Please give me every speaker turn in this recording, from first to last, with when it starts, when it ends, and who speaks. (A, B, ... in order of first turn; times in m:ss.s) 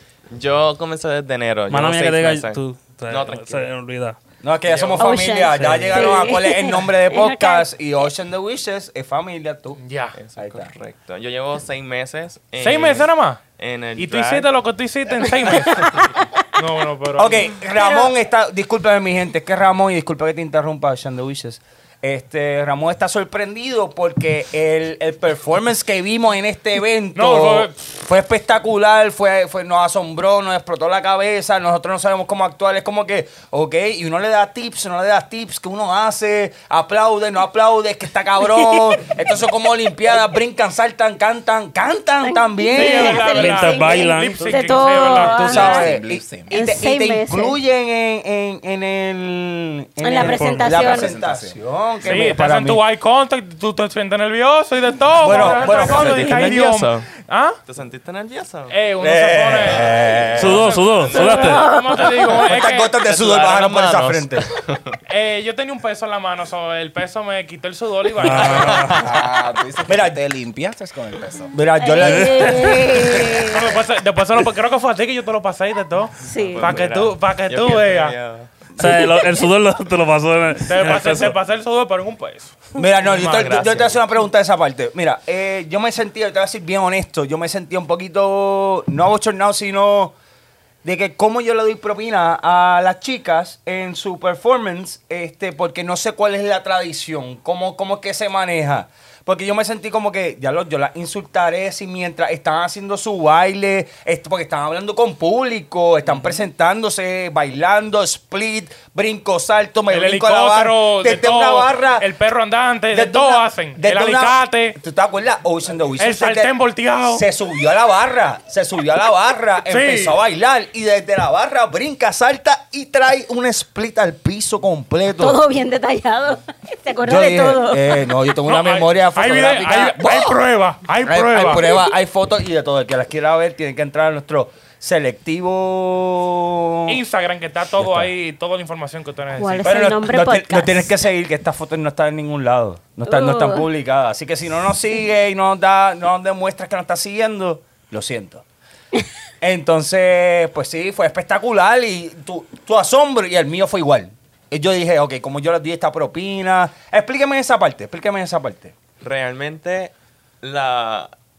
0:00.3-0:03.7 A
0:01.7-0:04.2 B
0:04.4-0:09.8 C
0:04.6-0:05.1 A
0:05.0-0:07.6 D
0:05.6-0:06.1 B
0:09.8-0:10.2 E
0:10.1-0:14.5 A
0:10.4-0:10.7 C
0:12.6-0:13.4 E
0:14.0-0:16.0 E
0:15.2-0:16.3 D
0:16.5-0:17.5 E
0:17.2-0:43.5 C
0:17.7-0:18.1 D
0:27.1-0:27.8 E
0:38.5-0:39.0 D
0:42.2-0:45.9 D
0:42.7-0:45.7 E
0:43.3-0:44.9 B
0:45.0-0:52.8 C
0:45.4-0:46.6 F
0:46.5-0:47.6 D
0:50.0-0:51.2 D
0:50.2-0:50.8 B
0:50.7-0:51.6 F
0:52.0-0:57.6 E
0:55.2-0:56.7 C
0:55.3-0:57.1 A
0:57.6-0:58.8 A
0:58.7-1:02.9 E
0:59.0-1:00.7 C
1:00.3-1:01.6 B
1:00.6-1:01.6 A
1:01.1-1:02.4 D
1:02.3-1:04.5 C
1:03.0-1:05.0 A
1:05.1-1:08.8 E
1:08.2-1:09.1 B
1:08.3-1:09.1 A
1:08.8-1:11.5 F
1:09.9-1:10.2 C
1:11.5-1:13.3 C
1:11.8-1:13.8 D
1:12.0-1:12.7 B
1:13.4-1:18.1 E
1:16.2-1:16.7 D
1:16.3-1:18.5 A
1:18.8-1:21.4 B
1:20.6-1:23.6 E
1:22.8-1:30.1 C
1:23.0-1:24.0 A
1:30.8-1:52.0 C
1:49.9-1:54.8 E
1:52.9-1:56.5 C
1:56.0-1:57.2 E
1:57.1-2:05.4 C
1:59.7-2:00.2 E
2:05.2-2:08.0 D
2:07.0-2:10.4 C
2:08.4-2:11.8 E
2:11.0-2:17.0 C
2:16.9-2:19.7 E
2:17.8-2:18.1 C
2:19.4-2:20.9 D
2:19.6-2:28.4 C
2:23.0-2:23.6 D
2:29.4-2:38.7 C
2:39.0-2:41.1 A